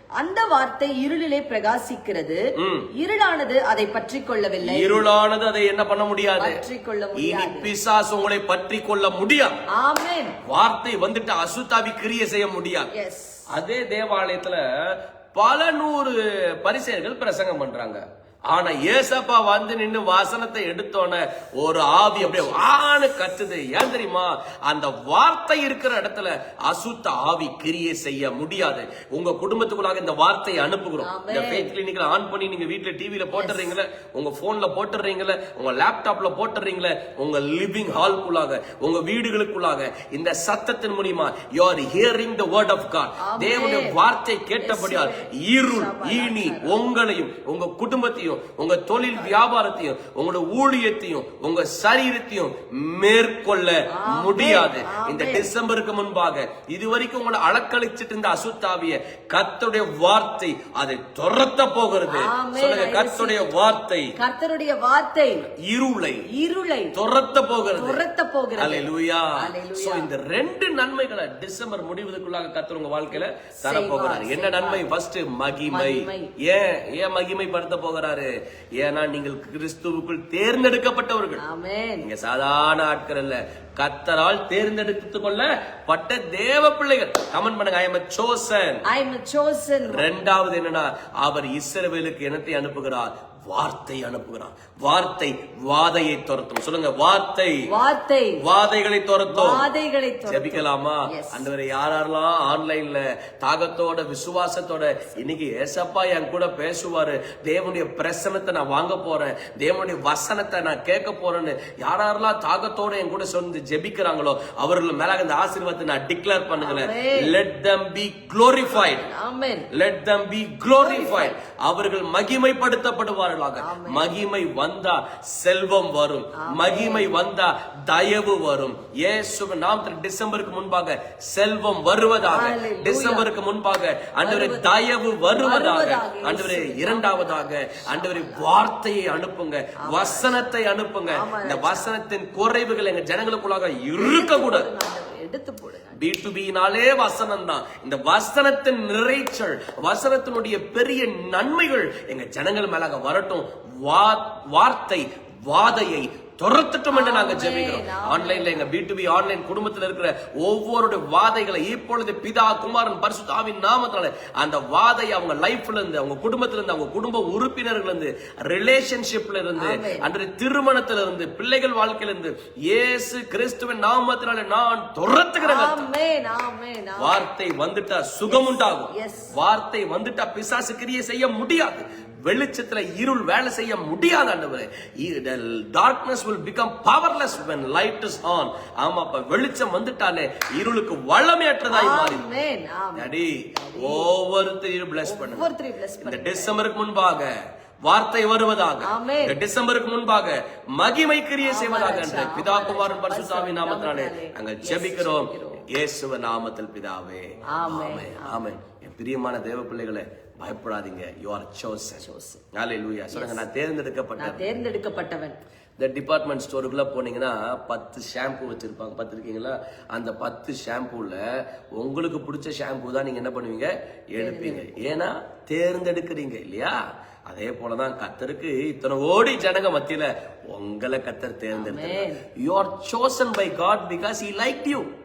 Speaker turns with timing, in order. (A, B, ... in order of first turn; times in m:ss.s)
0:00.2-0:05.0 A
0:02.6-0:02.9 B
0:04.6-0:06.6 B
0:06.4-0:07.7 A
0:07.2-0:09.6 B
0:09.7-0:10.4 A
0:10.5-0:12.9 B
0:12.9-0:13.5 A
0:13.5-1:04.1 B
0:22.2-0:22.6 A
0:31.0-0:31.7 A
0:33.3-0:33.7 A
0:43.2-0:44.0 A
0:44.6-0:46.8 A
0:53.9-0:55.5 A
1:02.1-1:05.5 A
1:05.6-1:06.2 B
1:06.3-1:07.0 A
1:06.9-1:08.0 B
1:07.7-1:10.1 A
1:08.6-1:21.4 B
1:13.6-1:14.9 A
1:15.7-1:16.3 A
1:21.4-1:22.0 A
1:22.0-1:28.8 B
1:28.9-1:30.1 A
1:29.9-1:37.6 B
1:37.7-1:38.4 A
1:38.4-1:39.7 B
1:39.3-1:41.5 A
1:40.2-1:59.0 B
1:56.6-1:57.3 A
1:58.7-1:59.7 A
1:59.7-2:24.7 B
2:00.8-2:01.4 A
2:03.6-2:04.1 A
2:06.3-2:07.1 A
2:12.2-2:13.3 A
2:14.2-2:14.7 A
2:15.4-2:18.5 A
2:19.8-2:20.5 A
2:21.1-2:21.9 A
2:24.0-2:26.0 A
2:26.0-2:55.9 B
2:36.9-2:38.7 A
2:49.6-2:50.1 A
2:55.4-2:57.2 A
2:57.0-3:12.2 B
2:58.3-2:59.3 A
3:11.7-3:14.1 A
3:13.0-3:15.5 B
3:15.0-3:16.6 A
3:16.0-3:17.3 B
3:17.8-3:34.5 B
3:18.8-3:19.4 A
3:21.4-3:25.7 A
3:27.5-3:28.4 A
3:32.0-3:32.4 A
3:33.1-3:33.4 A
3:34.2-3:35.4 A
3:35.8-3:41.2 B
3:41.8-3:46.8 B
3:44.2-3:44.9 A
3:47.3-3:54.9 B
3:51.5-3:52.2 A